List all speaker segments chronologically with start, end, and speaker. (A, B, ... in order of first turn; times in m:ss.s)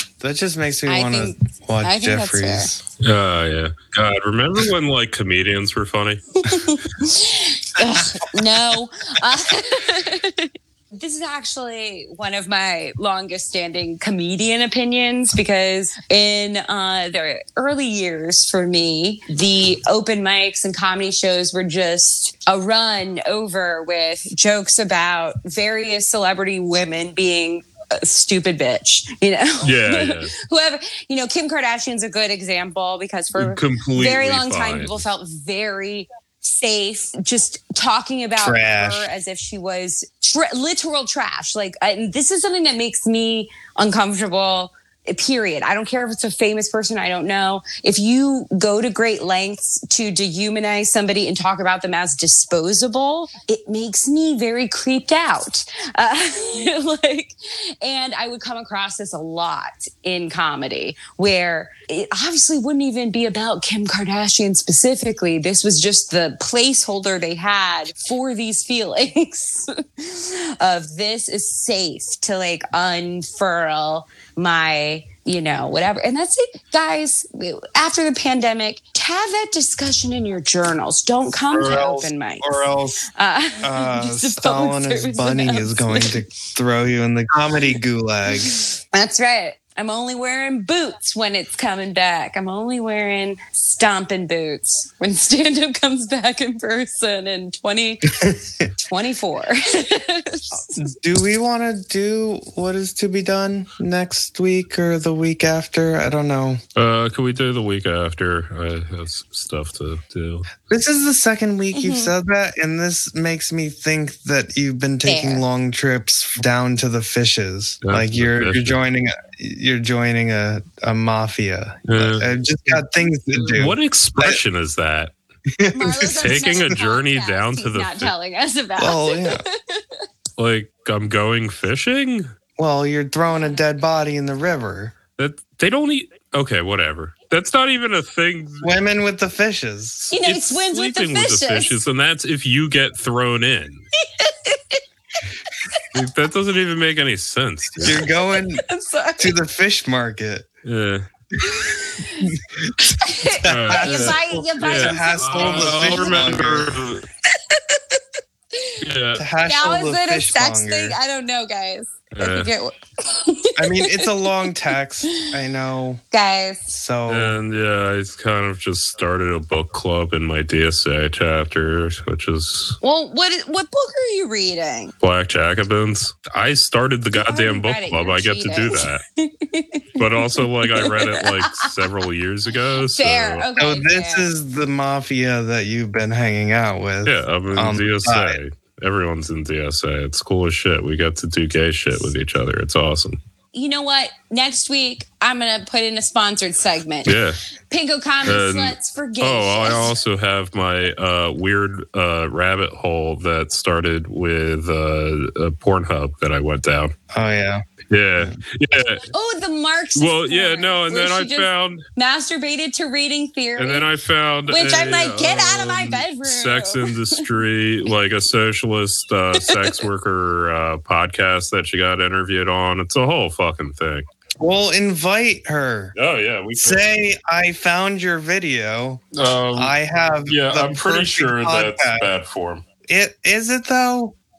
0:00.2-0:02.8 A
0:00.9-0:02.7 B
0:03.0-0:06.5 C
0:06.4-1:26.2 B
0:29.6-0:30.3 C
0:33.4-0:35.0 C
0:38.4-0:39.1 A
1:21.5-1:23.1 A
1:23.6-1:28.6 A
1:28.5-1:38.2 B
1:38.8-1:40.7 B
1:40.8-1:46.6 A
1:46.8-1:50.5 C
1:50.7-2:04.4 A
1:51.7-1:52.1 B
1:55.0-1:55.4 B
1:57.8-1:58.8 C
2:01.9-2:02.8 C
2:03.3-2:05.1 C
2:05.5-2:06.8 A
2:05.7-2:10.0 B
2:06.2-2:08.1 C
2:08.8-2:09.4 A
2:10.4-2:12.3 C
2:12.6-2:15.0 A
2:13.3-2:13.6 B
2:15.2-2:18.7 C
2:18.6-2:20.1 A
2:20.1-2:21.8 B
2:20.2-2:23.8 C
2:24.0-2:24.8 B
2:25.9-2:28.0 C
2:27.8-2:28.7 A
2:28.6-2:29.4 B
2:29.2-2:30.5 A
2:30.6-2:31.0 C
2:31.5-2:32.3 B
2:32.3-2:36.7 A
2:33.0-2:36.4 B
2:33.5-2:37.1 C
2:37.5-2:38.0 B
2:38.5-2:38.8 B
2:38.8-2:39.2 C
2:39.2-2:41.0 A
2:39.4-2:44.3 B
2:42.1-2:42.5 C
2:43.6-2:46.0 A
2:46.1-2:46.8 B
2:46.7-2:47.4 A
2:47.1-2:52.8 C
2:52.8-2:54.9 B
2:55.0-2:59.0 C
2:57.2-3:01.7 B
3:00.0-3:03.4 C
3:02.9-3:04.3 B
3:03.6-3:08.4 A
3:07.0-3:13.2 C
3:13.5-3:17.2 B
3:17.0-3:17.4 C
3:17.7-3:20.0 B
3:18.2-3:26.9 C
3:27.1-3:27.7 A
3:27.9-3:29.0 C
3:29.1-3:33.9 B
3:30.0-3:31.8 C
3:33.6-3:44.1 C
3:34.5-3:37.2 B
3:39.5-3:39.7 B
3:44.4-3:46.0 A
3:46.0-3:46.9 C
3:46.6-3:49.0 A
3:49.1-3:49.7 C
3:49.6-3:52.1 A
3:50.3-3:52.6 C
3:52.9-3:54.2 A